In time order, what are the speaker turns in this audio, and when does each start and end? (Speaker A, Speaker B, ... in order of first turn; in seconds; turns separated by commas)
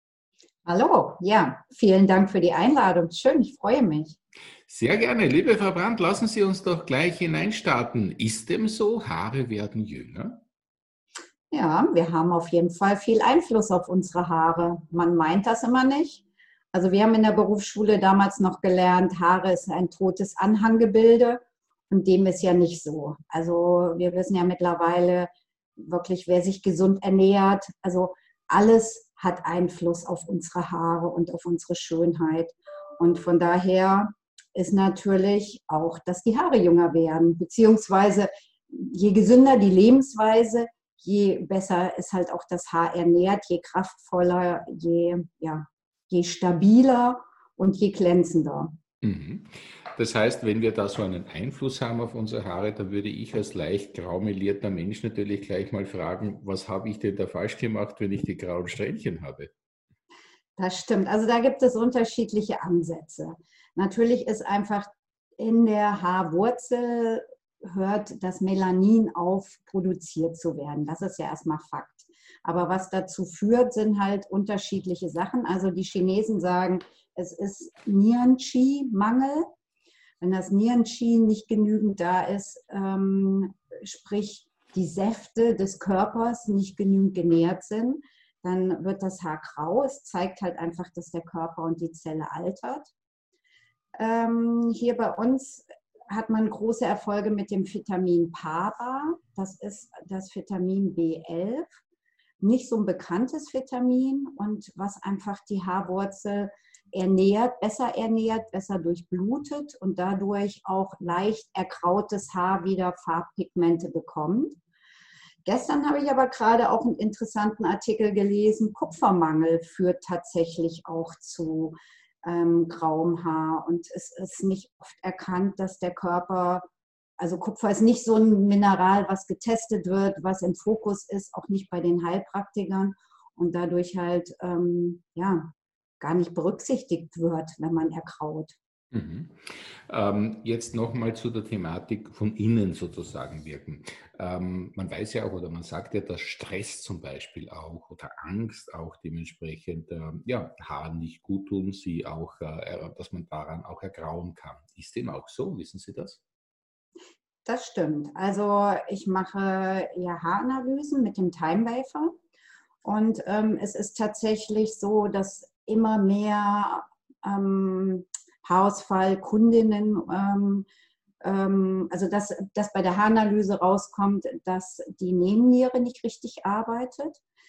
Speaker A: 0.7-4.2, Speaker B: 4.7-10.4, Speaker A: 11.5-48.8, Speaker B: 49.0-59.5, Speaker A: 60.6-79.5, Speaker A: 80.2-92.9, Speaker A: 94.0-101.7, Speaker A: 102.4-114.6, Speaker A: 115.4-126.6, Speaker A: 127.2-138.6, Speaker B: 138.9-156.2, Speaker A: 157.4-162.1, Speaker A: 162.8-170.7, Speaker A: 171.2-177.2